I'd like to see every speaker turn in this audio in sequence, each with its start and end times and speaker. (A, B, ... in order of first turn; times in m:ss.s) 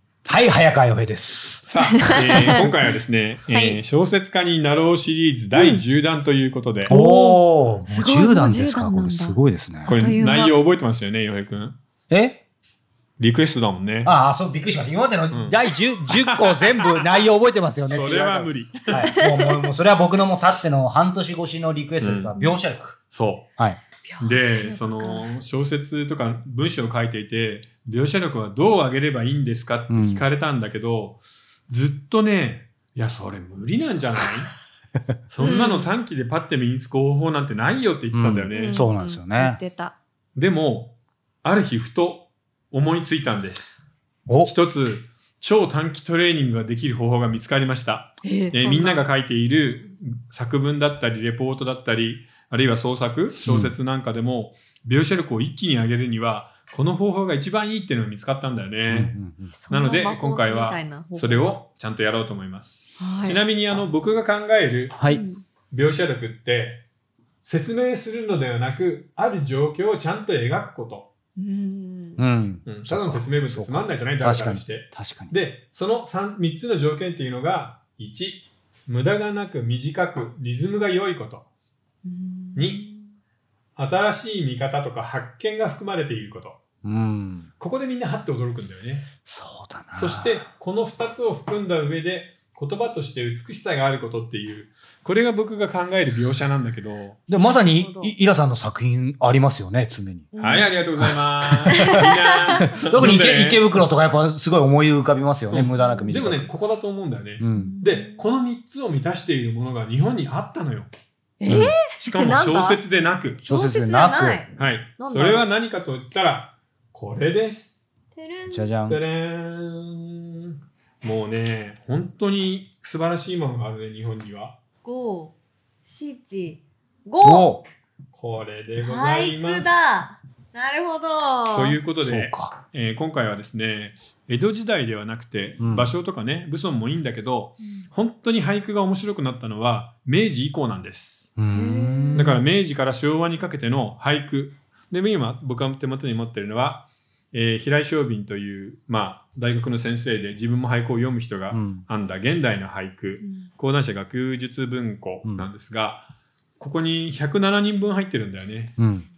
0:00.2-0:02.7 A
0:01.6-0:07.0 B
0:01.9-0:02.6 C
0:03.5-0:03.8 C
0:05.5-0:05.8 C
0:06.9-0:10.0 A
0:06.9-0:10.6 C
0:09.8-0:11.8 B
0:12.1-0:12.4 A
0:13.2-0:14.1 B
0:14.0-0:23.0 A
0:15.3-0:17.1 B
0:17.9-0:19.1 B
0:19.0-0:19.7 C
0:22.0-0:22.4 B
0:23.1-0:23.5 B
0:24.0-0:25.3 C
0:24.2-0:34.5 B
0:29.9-0:30.2 A
0:35.3-0:38.8 B
0:35.4-0:35.9 C
0:38.1-0:39.6 A
0:38.5-0:40.0 C
0:40.4-0:43.9 B
0:44.4-0:59.2 B
0:48.2-0:49.0 C
0:53.4-0:53.7 A
0:58.9-0:59.5 A
0:59.5-1:01.6 C
0:59.7-1:05.0 B
1:03.0-1:03.4 C
1:05.0-1:05.2 A
1:05.1-1:05.4 C
1:05.7-1:06.8 B
1:07.4-1:11.1 B
1:11.4-1:12.2 C
1:12.2-1:15.3 A
1:12.7-1:21.5 B
1:22.0-1:23.1 C
1:22.6-1:22.8 B
1:23.8-1:26.6 B
1:26.8-1:27.5 A
1:27.6-1:29.1 B
1:29.3-1:30.4 A
1:29.9-1:37.2 B
1:37.3-1:40.3 A
1:37.4-1:38.1 C
1:40.3-1:40.8 C
1:40.4-1:43.8 B
1:41.0-1:42.0 A
1:41.7-1:42.6 C
1:42.6-1:46.5 A
1:45.5-1:50.9 B
1:47.4-1:47.8 A
1:47.5-1:48.2 C
1:51.4-1:52.8 C
1:51.5-1:53.4 B
1:53.4-1:55.5 C
1:53.5-1:54.4 A
1:54.6-1:57.9 B
1:58.1-1:58.7 C
1:58.5-1:59.0 A
1:58.9-2:00.5 B
2:01.0-2:04.6 B
2:04.8-2:05.3 C
2:05.9-2:07.5 C
2:07.2-2:07.6 A
2:08.1-2:09.7 B
2:08.8-2:11.8 C
2:11.5-2:21.3 B
2:12.0-2:12.6 A
2:15.6-2:15.9 A
2:21.4-2:22.3 A
2:21.5-2:22.4 C
2:22.1-2:36.1 B
2:31.5-2:31.8 A
2:36.6-2:38.8 B
2:38.8-2:39.1 A